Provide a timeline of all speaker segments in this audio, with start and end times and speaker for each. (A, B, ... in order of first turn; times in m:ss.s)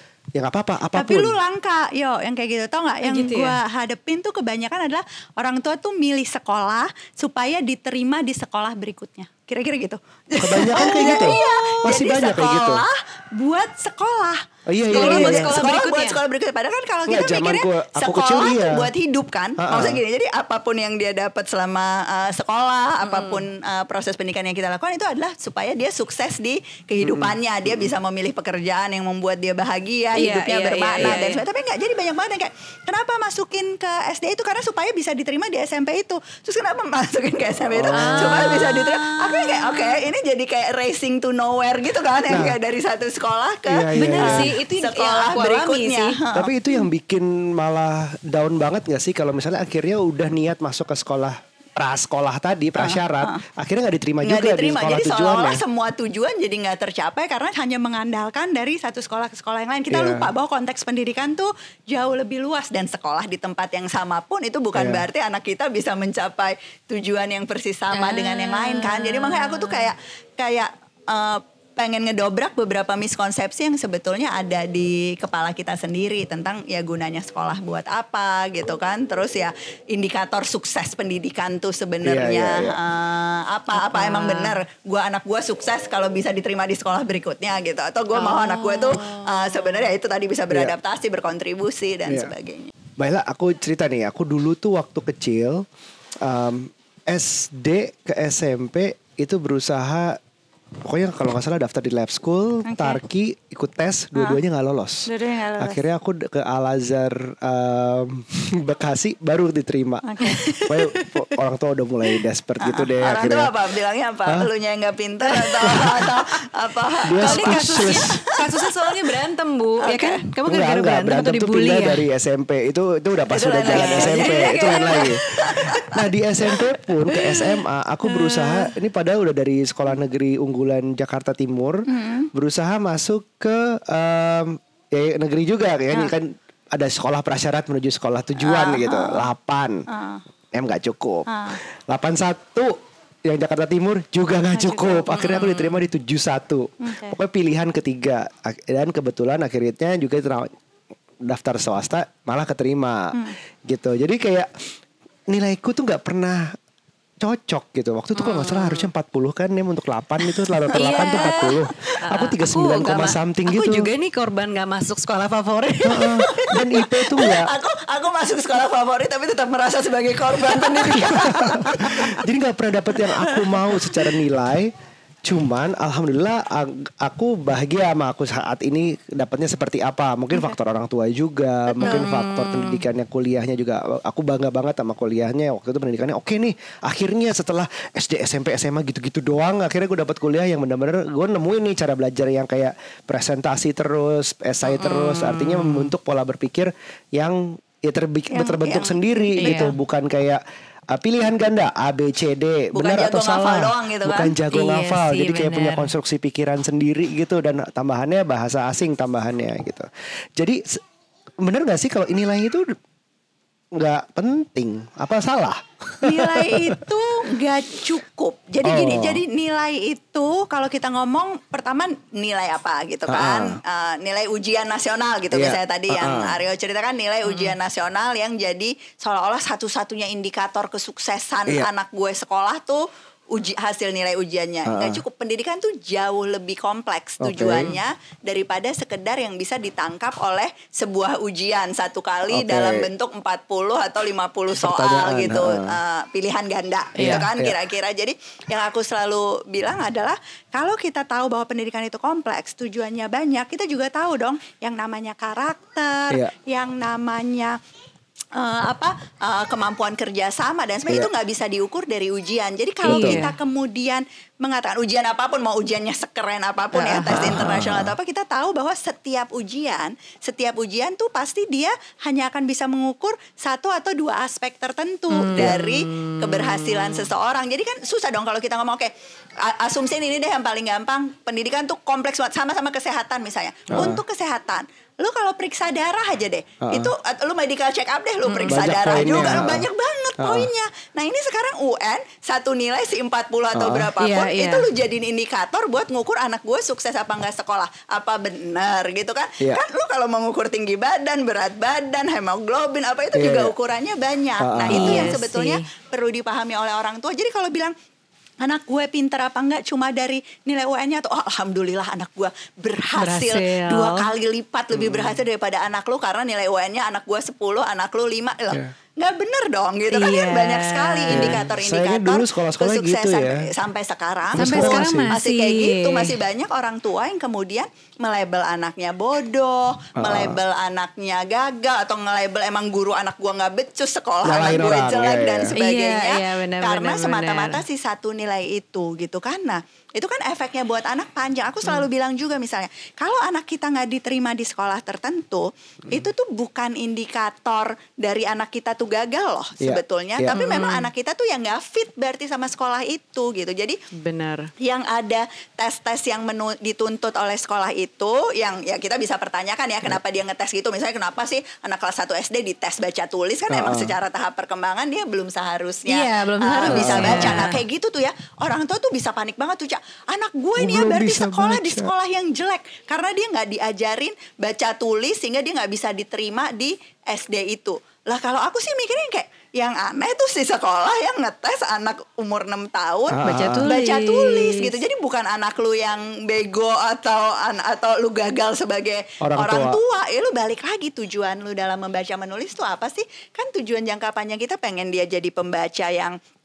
0:00.4-0:01.4 A
0:00.9-0:46.8 B
0:03.0-0:03.6 C
0:10.4-0:12.8 A
0:10.7-0:11.8 C
0:14.7-0:15.6 A
0:14.9-0:16.2 C
0:17.1-0:18.9 A
0:19.6-0:20.0 A
0:23.0-0:23.4 C
0:27.0-0:27.9 A
0:30.1-0:31.4 C
0:37.7-0:38.7 A
0:37.9-0:40.0 C
0:42.3-0:42.6 A
0:43.7-0:44.5 A
0:43.9-0:46.2 C
0:46.3-0:55.6 A
0:52.8-0:53.4 B
0:54.2-1:32.7 B
0:59.9-1:00.3 A
1:04.8-1:05.0 A
1:07.9-1:09.9 C
1:22.0-1:22.8 A
1:23.7-1:24.6 C
1:28.1-1:29.9 C
1:32.1-1:32.3 A
1:33.0-1:35.6 A
1:36.2-1:40.2 A
1:40.9-1:53.5 A
1:42.6-1:43.0 B
1:45.1-1:45.8 B
1:50.0-1:50.5 B
1:50.2-1:51.4 C
1:52.6-1:58.6 B
1:55.3-1:56.1 C
1:55.6-1:56.1 A
1:57.1-1:58.2 A
1:57.2-2:02.0 C
1:59.8-2:00.2 B
2:00.5-2:19.9 A
2:03.3-2:06.0 B
2:03.7-2:05.7 C
2:07.1-2:07.5 C
2:08.1-2:08.7 C
2:11.9-2:12.3 B
2:18.4-2:19.2 B
2:19.9-2:20.2 B
2:20.5-2:30.5 A
2:21.3-2:21.6 B
2:24.6-2:24.9 B
2:25.1-2:25.8 C
2:26.8-2:27.2 B
2:31.2-2:34.5 A
2:35.3-2:36.6 A
2:37.2-2:43.9 A
2:38.2-2:38.9 C
2:40.2-2:46.7 C
2:45.8-2:47.5 A
2:47.1-2:52.2 B
2:50.7-2:54.7 A
2:53.2-2:54.1 B
2:55.3-3:20.4 A
3:01.8-3:02.8 C
3:14.6-3:15.9 C
3:18.3-3:19.7 B
3:19.4-3:19.7 C
3:20.9-3:30.8 A
3:22.7-3:24.4 B
3:24.5-3:25.9 C
3:31.4-3:32.8 A
3:33.7-3:36.8 A
3:36.0-4:17.6 B
3:38.6-3:39.2 A
3:43.1-3:43.6 A
3:45.3-3:46.4 A
3:47.2-3:47.6 C
3:54.7-3:55.0 A
3:57.2-3:57.7 A
4:02.3-4:02.9 A
4:04.6-4:05.8 A
4:07.0-4:07.3 C
4:07.0-4:07.6 A
4:18.4-5:07.7 B
4:22.8-4:23.3 C
4:22.9-4:23.2 A
4:26.8-4:27.9 A
4:26.8-4:27.3 C
4:35.1-4:37.1 C
4:43.7-4:44.0 A
4:46.6-4:46.9 A
4:48.3-4:49.4 C
4:48.5-4:50.5 A
4:53.5-4:53.9 A
4:54.0-4:54.7 C
5:03.2-5:03.5 A
5:04.4-5:05.2 A
5:04.7-5:05.6 C
5:08.4-5:53.8 B
5:13.0-5:14.1 C
5:14.7-5:15.2 A
5:19.9-5:21.4 C
5:21.1-5:23.5 A
5:24.4-5:25.1 A
5:24.4-5:26.2 C
5:30.0-5:30.4 A
5:34.2-5:35.5 A
5:35.5-5:37.6 C
5:49.6-5:50.3 A
5:50.3-5:50.9 C
5:53.9-5:54.5 C
5:54.6-6:36.2 B
6:03.5-6:04.0 A
6:05.9-6:07.6 C
6:06.6-6:07.5 A
6:10.6-6:11.9 A
6:23.1-6:23.7 A
6:23.2-6:24.8 C
6:29.2-6:29.8 A